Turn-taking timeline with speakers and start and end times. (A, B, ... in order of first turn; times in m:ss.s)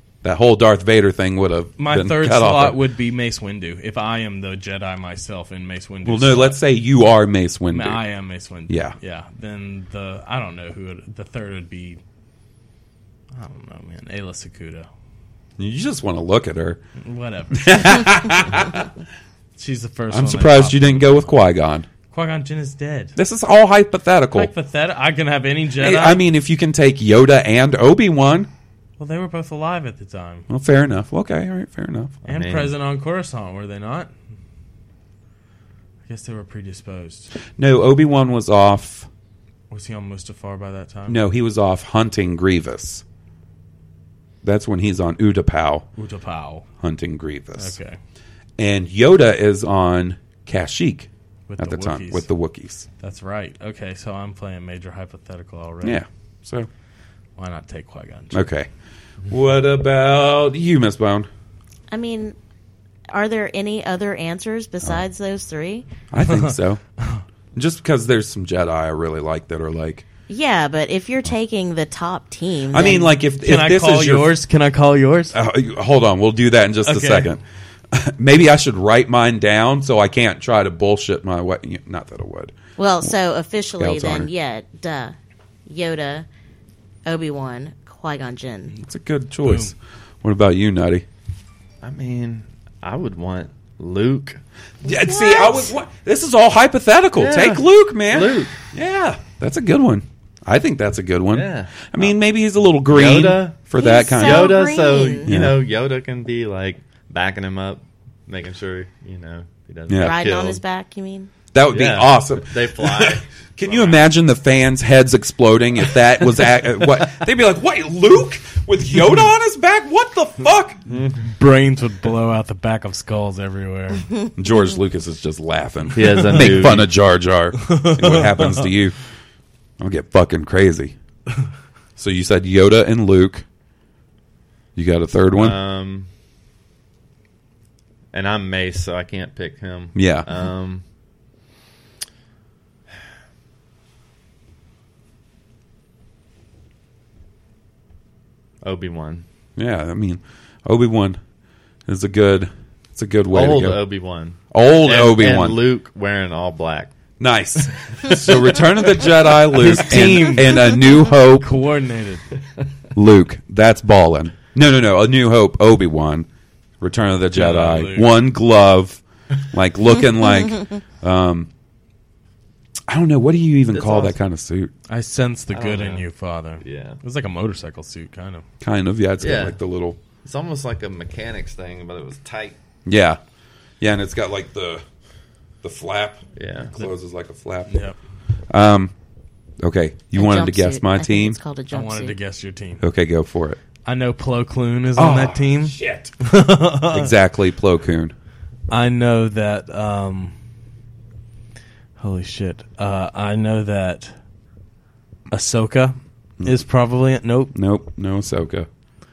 0:00.2-0:02.8 A
0:01.8-0:06.6 B
0:06.0-0:08.0 A
0:07.7-0:12.0 B
0:08.7-0:09.0 A
0:13.4-0:14.9 B
0:15.6-0:16.8 A
0:17.0-0:18.2 B
0:17.5-0:18.9 A
0:19.6-0:21.3 B
0:20.1-0:21.9 A
0:22.1-0:23.2 B
0:23.2-0:24.5 A
0:24.3-0:26.2 B
0:25.8-0:28.5 A
0:29.0-0:30.5 B
0:30.5-0:32.2 A
0:32.2-0:32.7 C
0:32.3-0:34.1 B
0:36.1-0:37.3 B
0:37.6-0:39.1 A
0:39.7-0:41.2 B
0:41.1-0:43.0 A
0:44.4-0:45.9 A
0:46.0-0:46.6 B
0:46.8-0:47.8 A
0:47.6-0:48.0 B
0:48.6-0:52.9 A
0:51.5-0:52.3 B
0:53.0-0:56.0 B
0:55.8-0:56.7 A
0:57.4-0:58.5 B
0:58.3-0:58.7 A
0:59.3-1:01.3 A
1:01.9-1:02.4 D
1:03.1-1:05.9 D
1:06.1-1:06.8 A
1:06.2-1:07.2 B
1:07.6-1:10.1 A
1:10.3-1:13.1 D
1:12.7-1:14.3 A
1:12.8-1:15.4 B
1:15.3-1:17.4 A
1:16.9-1:17.3 B
1:17.9-1:23.1 A
1:22.8-1:25.2 D
1:23.8-1:24.3 A
1:25.7-1:26.3 D
1:27.1-1:28.7 D
1:28.8-1:31.1 A
1:29.4-1:29.7 B
1:31.8-1:34.4 C
1:34.8-1:44.7 A
1:34.8-1:35.7 D
1:37.2-1:38.6 C
1:41.3-1:42.1 C
1:42.9-1:50.6 C
1:43.8-1:45.3 D
1:45.3-1:45.6 A
1:49.9-1:50.2 A
1:50.0-1:51.3 D
1:51.5-2:00.9 A
1:51.7-1:54.0 C
2:00.9-2:01.3 C
2:01.4-2:04.1 B
2:04.4-2:09.0 A
2:06.0-2:06.9 C
2:06.3-2:06.8 B
2:07.6-2:08.7 B
2:09.8-2:11.0 A
2:12.0-2:13.5 A
2:14.8-2:15.6 A
2:15.4-2:16.1 C
2:18.1-2:20.8 C
2:20.0-2:20.3 A
2:28.6-2:29.2 C
2:29.6-2:31.2 A
2:31.9-2:33.8 A
2:33.3-2:36.9 C
2:34.5-2:35.6 A
2:37.2-2:41.5 A
2:38.0-2:38.5 C
2:39.5-2:42.3 B
2:43.0-2:46.3 A
2:46.8-2:51.5 A
2:47.3-2:48.1 B
2:52.9-2:54.7 A
2:53.7-2:54.2 C
2:54.9-2:58.4 B
2:55.5-2:56.1 C
2:56.6-2:57.0 C
2:58.6-3:00.0 A
2:59.2-2:59.6 C
3:00.2-3:02.6 C
3:02.9-3:03.2 A
3:03.8-3:04.8 A
3:05.6-3:07.8 A
3:06.4-3:06.8 C
3:07.7-3:08.0 B
3:08.5-3:08.9 A
3:09.6-3:11.4 A
3:10.1-3:12.2 D
3:11.7-3:12.8 B
3:12.8-3:13.6 A
3:13.8-3:17.1 B
3:15.0-3:16.1 A
3:16.9-3:18.2 A
3:18.7-3:20.3 B
3:22.0-3:24.1 B
3:25.3-3:27.5 B
3:27.5-3:28.7 A